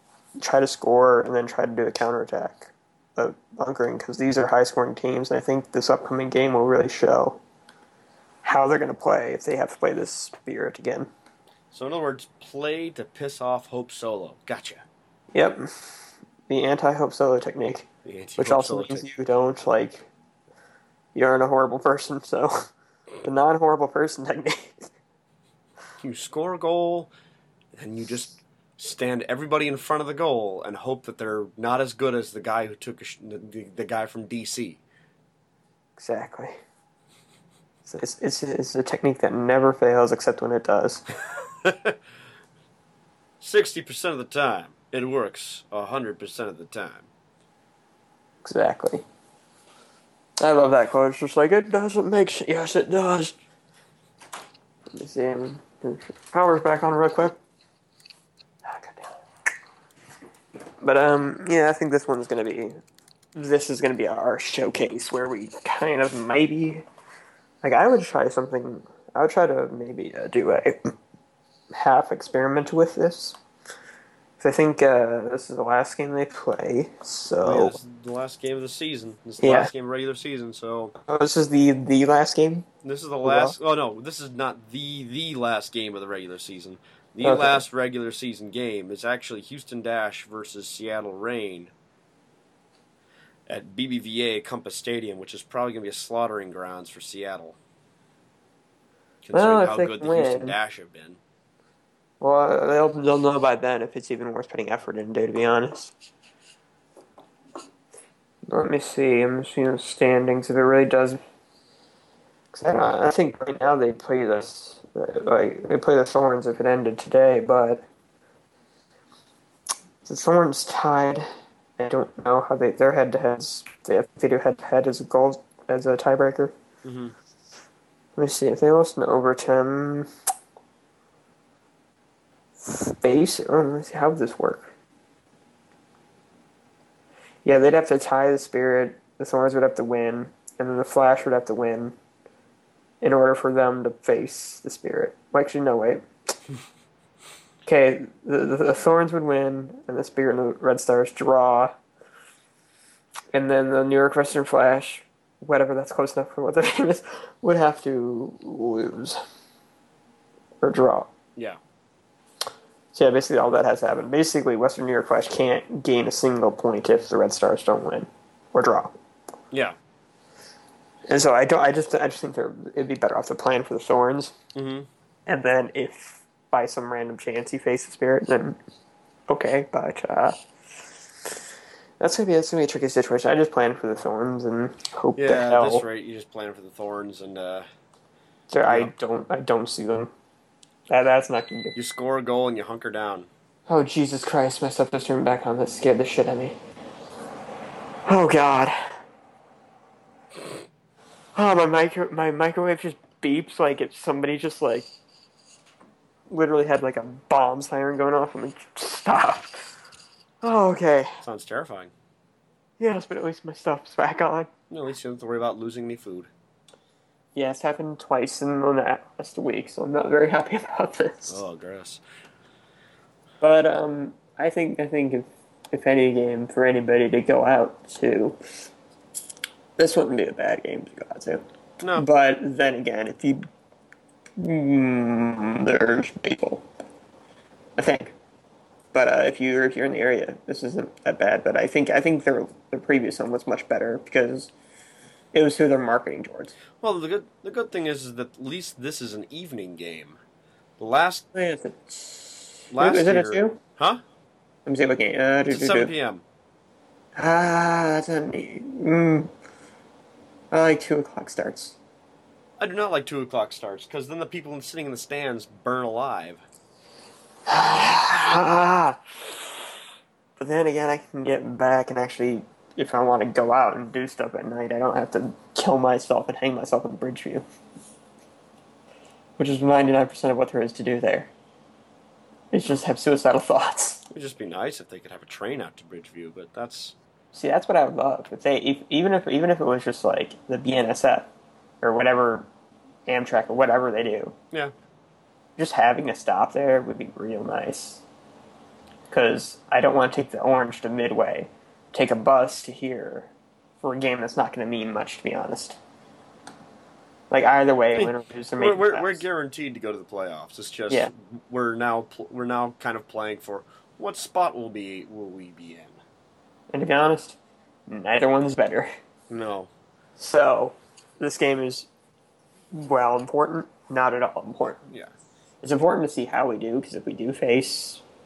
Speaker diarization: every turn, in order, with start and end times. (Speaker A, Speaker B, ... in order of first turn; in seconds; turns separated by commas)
Speaker A: 0.4-7.4, Speaker A: 8.4-11.1, Speaker B: 11.7-14.8, Speaker A: 15.3-15.7, Speaker A: 16.5-17.9, Speaker B: 18.0-19.1, Speaker A: 18.4-20.1, Speaker A: 21.1-22.5, Speaker A: 23.2-24.9, Speaker B: 26.0-27.1, Speaker B: 27.7-34.8, Speaker A: 36.0-36.6, Speaker A: 37.9-41.0, Speaker B: 41.6-42.0, Speaker B: 43.4-47.1, Speaker A: 48.4-49.0, Speaker A: 50.4-53.3, Speaker A: 54.9-57.4, Speaker A: 58.6-59.1, Speaker A: 60.8-62.8, Speaker A: 63.3-66.8, Speaker A: 67.6-70.8, Speaker A: 71.7-73.4, Speaker A: 74.4-77.8, Speaker B: 77.4-80.9, Speaker A: 79.4-79.7, Speaker A: 81.0-82.7, Speaker B: 82.8-91.7, Speaker A: 83.2-83.5, Speaker A: 87.2-87.6, Speaker B: 93.5-97.6, Speaker B: 99.2-101.2, Speaker A: 99.3-100.5, Speaker A: 102.2-105.9, Speaker A: 108.5-111.2, Speaker A: 112.5-117.8, Speaker A: 120.0-121.2, Speaker A: 121.8-126.5, Speaker B: 126.8-127.1, Speaker A: 128.2-130.1, Speaker A: 132.6-134.7, Speaker A: 137.4-141.9, Speaker A: 143.0-146.0, Speaker A: 147.6-151.7, Speaker A: 153.3-159.2, Speaker A: 160.6-161.1, Speaker A: 162.9-168.9, Speaker B: 169.5-169.8, Speaker A: 171.1-174.3, Speaker B: 174.5-174.9, Speaker A: 175.2-178.6, Speaker A: 179.3-180.4, Speaker A: 182.0-185.8, Speaker B: 185.2-187.7, Speaker A: 188.5-190.1, Speaker B: 188.6-188.9, Speaker A: 190.9-191.7, Speaker B: 191.7-193.3, Speaker A: 193.7-196.6, Speaker A: 198.1-198.9, Speaker A: 201.3-204.9, Speaker A: 206.3-209.6, Speaker A: 210.4-211.1, Speaker B: 211.2-211.9, Speaker A: 212.8-214.5, Speaker B: 214.7-216.3, Speaker A: 217.3-221.4, Speaker B: 221.3-222.0, Speaker A: 223.4-228.4, Speaker A: 229.8-231.4, Speaker B: 231.8-232.1, Speaker A: 231.9-233.4, Speaker A: 234.4-236.6, Speaker A: 237.8-238.1, Speaker A: 238.9-244.5, Speaker A: 245.3-246.6, Speaker B: 246.8-250.2, Speaker B: 250.8-251.2, Speaker A: 251.3-253.6, Speaker B: 252.7-254.0, Speaker A: 254.7-255.9, Speaker B: 255.5-256.2, Speaker A: 257.1-259.3, Speaker A: 260.5-261.8, Speaker B: 262.6-266.4, Speaker A: 267.5-269.6, Speaker A: 270.4-277.4, Speaker A: 279.4-281.3, Speaker A: 282.5-284.0, Speaker B: 284.1-286.9, Speaker A: 287.3-291.3, Speaker A: 291.8-292.5, Speaker A: 293.1-294.3, Speaker A: 295.6-298.0, Speaker A: 299.1-305.8, Speaker A: 307.3-309.2, Speaker B: 307.9-316.0, Speaker A: 316.7-318.9, Speaker B: 319.3-319.7, Speaker A: 320.2-321.9, Speaker A: 322.7-324.8, Speaker A: 325.6-328.0